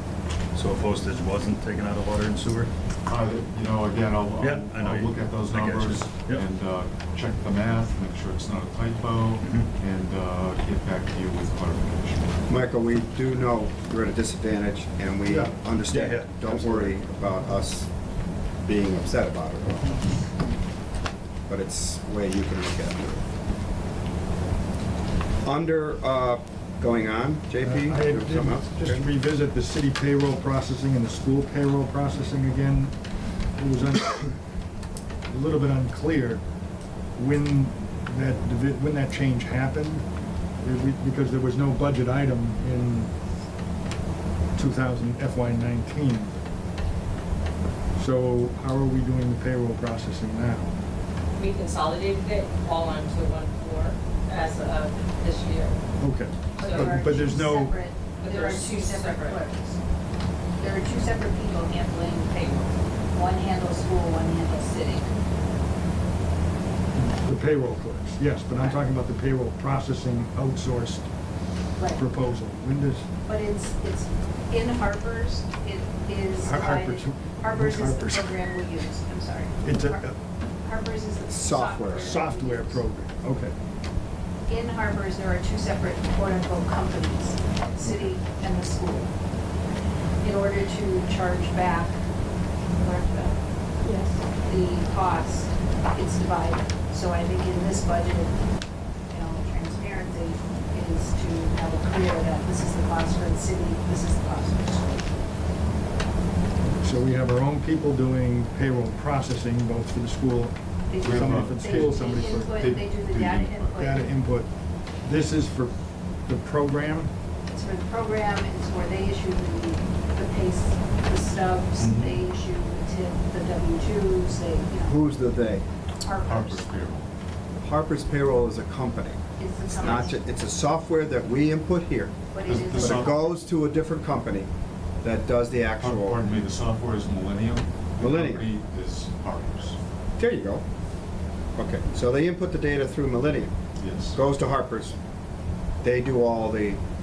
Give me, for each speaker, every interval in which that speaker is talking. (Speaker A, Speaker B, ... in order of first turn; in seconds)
Speaker A: 0.5-2.7, 4.4-6.5, 9.4-9.7, 15.9-17.0
Speaker B: 3.1-12.3, 111.0-113.9, 121.8-122.3, 126.1-127.1, 132.4-133.2, 135.8-139.8, 143.8-144.2
Speaker C: 12.5-17.9, 18.6-20.1, 21.5-23.2, 25.4-29.0, 81.3-82.2, 124.8-125.6, 127.6-134.5, 135.0-136.2, 138.0-138.5, 140.2-140.6, 141.6-143.5, 144.1-144.9, 145.8-146.8
Speaker D: 15.2-15.6, 27.6-32.9, 33.5-34.4, 35.3-36.4, 37.1-40.1, 40.6-43.1, 44.5-46.4, 47.9-50.7, 56.0-57.8, 66.9-71.1, 71.9-73.1, 76.4-78.3, 79.6-80.2, 81.9-83.5, 106.8-112.5, 113.8-114.5, 115.0-117.1
Speaker E: 51.4-55.8, 56.6-57.2, 58.2-59.4, 62.3-62.8, 92.8-93.3
Speaker F: 56.6-59.8, 60.6-62.5, 63.1-65.1, 71.8-72.0, 73.2-80.0, 80.6-82.8, 84.5-89.1, 90.2-92.0, 94.4-98.4, 99.1-105.1, 110.9-114.0, 117.5-125.0, 126.0-126.7, 129.4-130.2, 132.3-133.1